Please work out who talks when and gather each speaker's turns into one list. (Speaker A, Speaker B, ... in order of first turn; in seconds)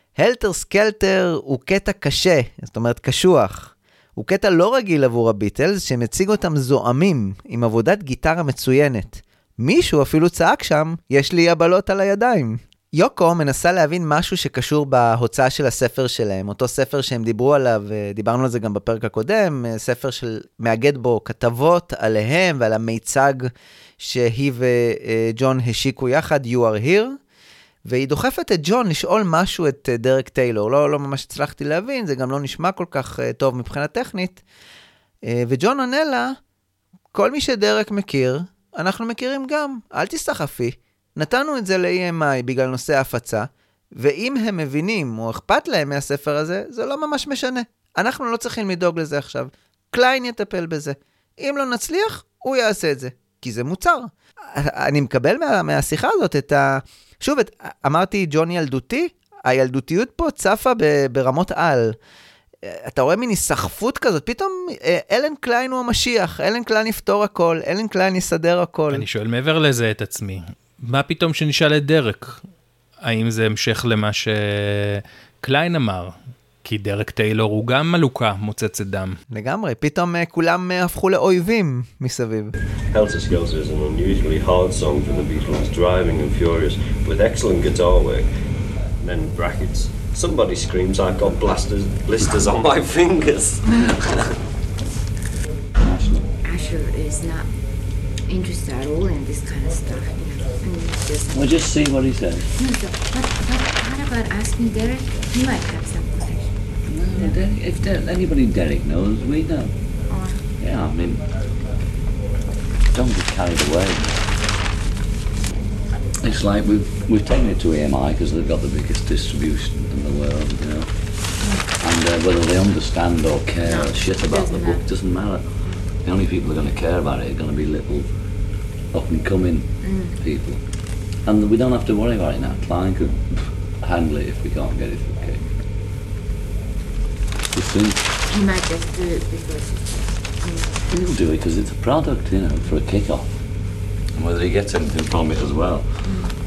Speaker A: 0.2-27.2, 27.9-34.4, 35.2-36.4, 37.1-62.0, 62.6-69.0, 79.3-82.5
Speaker B: 68.9-72.4, 73.0-79.2
Speaker C: 82.9-88.3, 89.0-94.2
Speaker D: 95.8-96.2, 101.3-102.5, 106.8-109.8, 110.6-111.2, 112.9-114.3, 116.2-135.4, 137.5-138.1, 140.9-143.6, 144.1-146.1
Speaker E: 96.4-97.5, 98.3-101.7, 102.5-107.4, 110.1-110.5, 121.4-121.7, 123.6-125.9, 129.8-130.2, 138.3-141.1, 146.0-146.3